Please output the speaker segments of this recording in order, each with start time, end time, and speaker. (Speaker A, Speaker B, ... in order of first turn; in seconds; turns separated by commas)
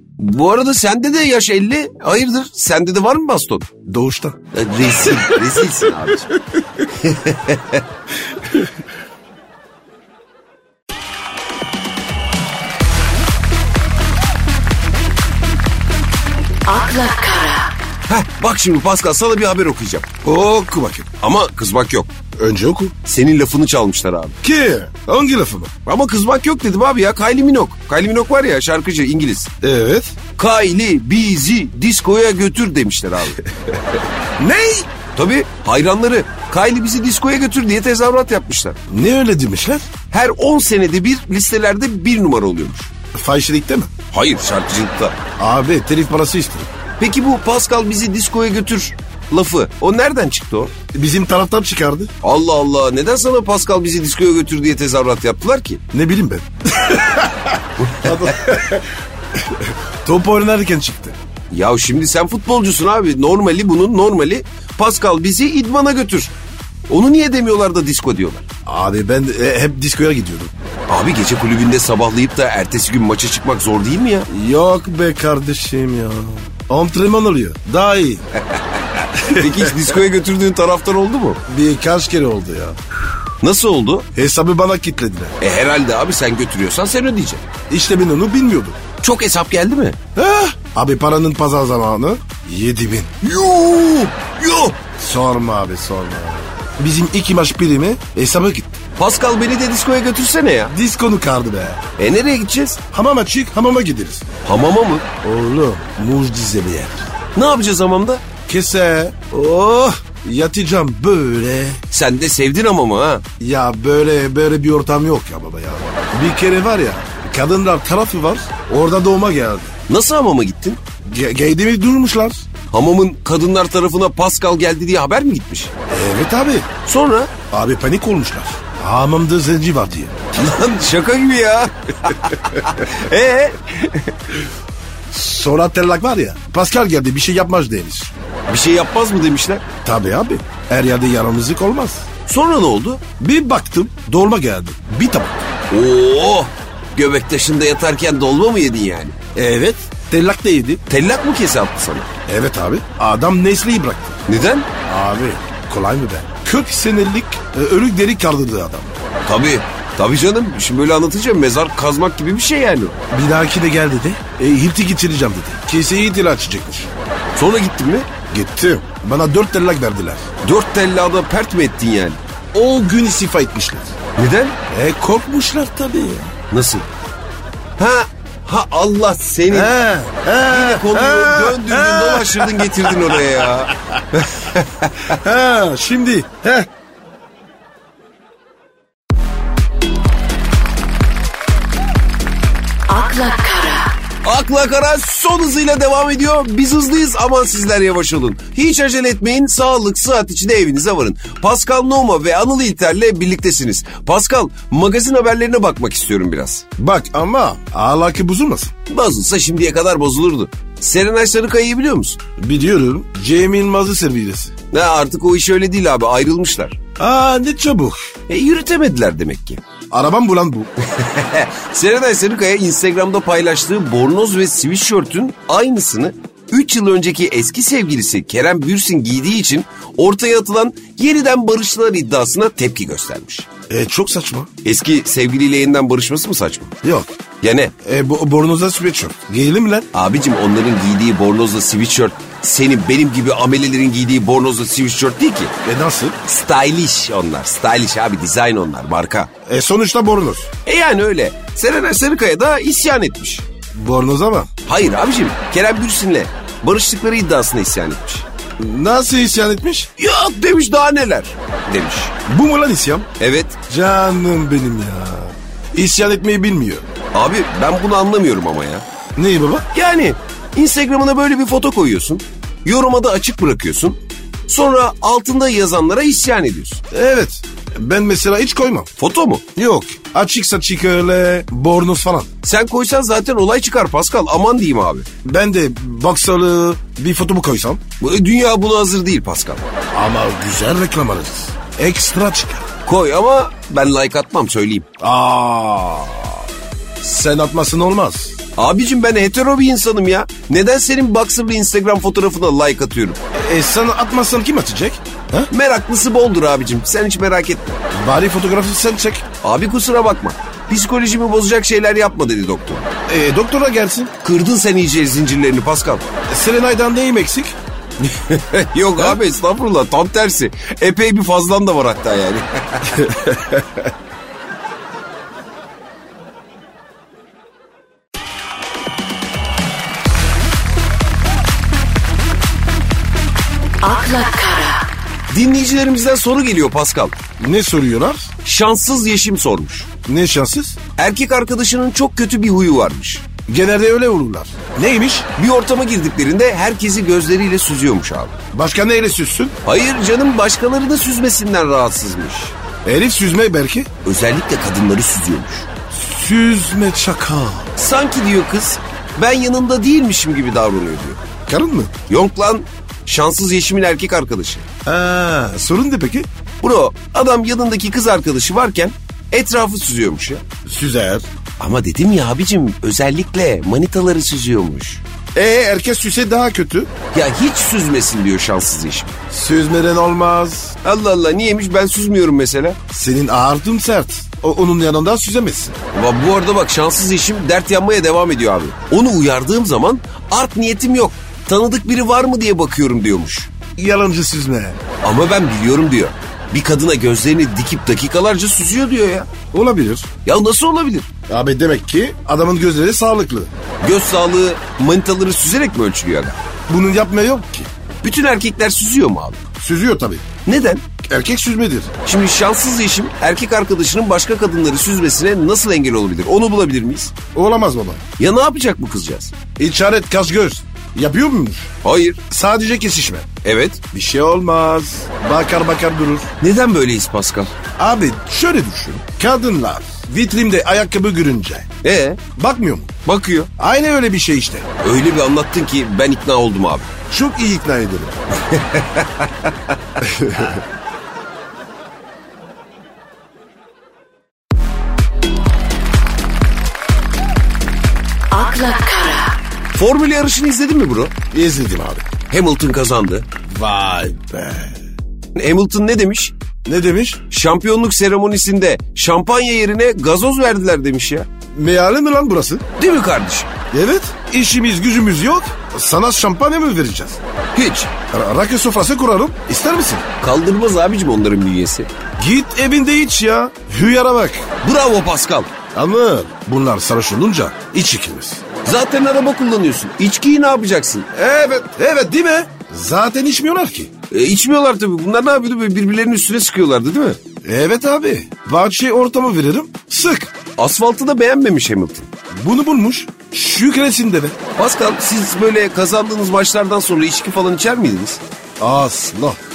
Speaker A: 0.2-3.7, Speaker B: 3.9-4.4, Speaker A: 4.5-7.8, Speaker B: 5.0-6.2, Speaker C: 16.7-17.7, Speaker A: 18.1-20.1, Speaker B: 20.2-21.1, Speaker A: 21.2-22.1, Speaker B: 22.4-22.9, Speaker A: 23.1-24.4, Speaker B: 24.4-25.7, Speaker A: 25.9-29.5, Speaker B: 29.6-30.1, Speaker A: 30.4-33.4, Speaker B: 34.4-34.9, Speaker A: 35.1-38.8, Speaker B: 38.9-39.9, Speaker A: 40.1-42.9, Speaker B: 43.1-43.9, Speaker A: 44.1-45.2, Speaker B: 45.4-46.7, Speaker A: 47.0-50.7, Speaker B: 50.9-52.1, Speaker A: 52.2-55.8, Speaker B: 55.9-61.2, Speaker A: 57.8-58.3, Speaker A: 61.5-66.3, Speaker A: 66.9-68.5, Speaker B: 68.7-70.5, Speaker A: 70.9-74.3, Speaker B: 74.3-78.2, Speaker A: 78.5-81.4, Speaker B: 79.2-79.7, Speaker B: 81.5-82.8, Speaker A: 83.4-84.1, Speaker B: 84.2-85.4, Speaker A: 85.4-87.4, Speaker B: 87.7-88.8, Speaker A: 89.0-90.0, Speaker B: 90.2-93.1, Speaker A: 93.2-94.8, Speaker B: 95.0-98.8, Speaker A: 99.0-100.7, Speaker B: 100.7-101.8, Speaker A: 102.0-102.8, Speaker B: 102.9-104.2, Speaker A: 104.5-105.0, Speaker B: 105.2-107.1, Speaker A: 107.3-108.2, Speaker B: 108.5-111.8, Speaker A: 111.9-113.2, Speaker B: 113.4-119.7, Speaker A: 119.9-120.8, Speaker B: 121.0-122.4, Speaker A: 122.7-125.7, Speaker B: 125.9-126.7, Speaker A: 126.8-127.3, Speaker B: 127.5-130.6, Speaker A: 130.4-134.3, Speaker B: 135.1-138.1, Speaker A: 138.5-139.6, Speaker B: 139.8-142.1, Speaker A: 142.3-143.0, Speaker B: 143.2-145.5, Speaker A: 145.7-149.2, Speaker B: 149.3-150.8, Speaker A: 150.9-152.1, Speaker B: 152.3-154.2, Speaker A: 154.3-154.7, Speaker B: 154.9-158.9, Speaker A: 159.2-163.0, Speaker B: 163.1-166.9, Speaker A: 167.3-168.1, Speaker B: 168.3-170.2, Speaker A: 170.4-172.2, Speaker B: 172.5-173.9, Speaker A: 174.2-174.6, Speaker B: 174.7-176.3, Speaker A: 176.5-176.9, Speaker A: 177.8-179.7, Speaker B: 179.5-183.8, Speaker A: 180.5-185.2, Speaker B: 185.1-186.7, Speaker C: 192.9-193.9, Speaker A: 194.2-206.7, Speaker B: 206.8-208.7, Speaker A: 208.9-212.2, Speaker B: 212.4-214.5, Speaker A: 214.7-216.8, Speaker B: 217.0-218.1, Speaker A: 218.3-219.6, Speaker B: 219.9-220.7, Speaker A: 220.8-233.5, Speaker B: 233.7-234.5, Speaker A: 234.6-236.7, Speaker B: 236.8-237.1, Speaker A: 237.4-237.7, Speaker B: 237.8-239.9, Speaker A: 239.9-245.5, Speaker B: 245.7-246.2, Speaker A: 246.2-249.3, Speaker B: 249.5-250.5, Speaker A: 250.7-253.4, Speaker B: 253.8-254.5, Speaker A: 254.7-258.2, Speaker B: 258.6-259.9, Speaker A: 260.0-262.1, Speaker B: 262.3-263.1, Speaker A: 263.2-263.6, Speaker B: 263.7-266.9, Speaker A: 267.1-268.9, Speaker B: 269.2-269.7, Speaker A: 269.7-276.8, Speaker B: 276.9-278.9, Speaker A: 279.0-279.4, Speaker B: 279.6-282.3, Speaker A: 282.4-285.1, Speaker B: 285.2-287.8, Speaker A: 288.0-289.6, Speaker B: 289.9-292.7, Speaker A: 292.9-294.9, Speaker B: 295.0-296.4, Speaker B: 297.0-298.4, Speaker A: 298.6-303.2, Speaker B: 303.3-305.5, Speaker A: 305.5-307.8, Speaker B: 307.9-309.2, Speaker A: 309.4-312.9, Speaker B: 313.1-314.1, Speaker A: 314.2-316.1, Speaker B: 316.3-317.6, Speaker A: 318.0-323.1, Speaker B: 323.0-323.6, Speaker A: 333.9-334.2, Speaker C: 334.0-334.6, Speaker A: 335.3-337.2, Speaker B: 337.4-338.3, Speaker A: 338.4-339.9, Speaker B: 340.1-340.8, Speaker A: 341.0-343.3, Speaker B: 343.5-345.3, Speaker A: 345.4-348.4, Speaker B: 348.5-349.6, Speaker A: 349.6-352.6, Speaker B: 352.9-353.9, Speaker A: 354.1-355.7, Speaker B: 355.9-357.7, Speaker A: 357.8-361.2, Speaker B: 361.5-361.9, Speaker A: 362.1-364.6, Speaker B: 364.9-366.3, Speaker A: 366.6-370.4, Speaker B: 370.7-371.3, Speaker A: 371.6-375.0, Speaker B: 375.4-376.9, Speaker A: 377.1-379.2, Speaker B: 379.3-380.8, Speaker A: 380.8-382.8, Speaker B: 382.9-385.8, Speaker A: 385.9-393.5, Speaker B: 393.8-394.8, Speaker A: 395.0-399.3, Speaker B: 399.5-400.1, Speaker A: 400.2-401.1, Speaker B: 401.3-403.5, Speaker A: 403.8-406.4, Speaker B: 406.7-407.7, Speaker A: 408.0-409.4, Speaker B: 409.6-410.3, Speaker A: 410.5-410.8, Speaker B: 411.0-411.9, Speaker A: 412.1-417.1, Speaker B: 417.3-418.0, Speaker A: 418.2-419.3, Speaker B: 419.6-421.7, Speaker A: 421.8-422.2, Speaker B: 422.3-423.3, Speaker A: 423.4-423.8, Speaker B: 423.9-426.3, Speaker A: 426.4-427.6, Speaker B: 427.8-431.7, Speaker A: 431.8-432.2, Speaker B: 432.4-432.9, Speaker A: 433.1-433.5, Speaker B: 433.6-434.7, Speaker A: 434.8-436.9, Speaker B: 437.1-438.2, Speaker A: 438.5-439.5, Speaker B: 440.0-440.6, Speaker C: 448.4-449.2, Speaker A: 449.7-451.1, Speaker B: 451.3-452.1, Speaker A: 452.3-453.3, Speaker B: 453.5-454.8, Speaker A: 455.4-456.3, Speaker B: 456.7-457.2, Speaker A: 457.3-461.3, Speaker B: 461.6-462.6, Speaker A: 462.8-463.5, Speaker B: 463.7-467.2, Speaker A: 467.5-467.9, Speaker B: 468.1-470.0, Speaker A: 470.2-471.9, Speaker B: 472.2-474.4, Speaker A: 474.6-475.5, Speaker B: 475.7-478.4, Speaker A: 478.6-481.1, Speaker B: 481.1-483.9, Speaker A: 484.1-487.2, Speaker B: 487.4-490.3, Speaker A: 490.6-492.1, Speaker B: 492.4-494.4, Speaker A: 494.6-498.2, Speaker B: 498.6-499.4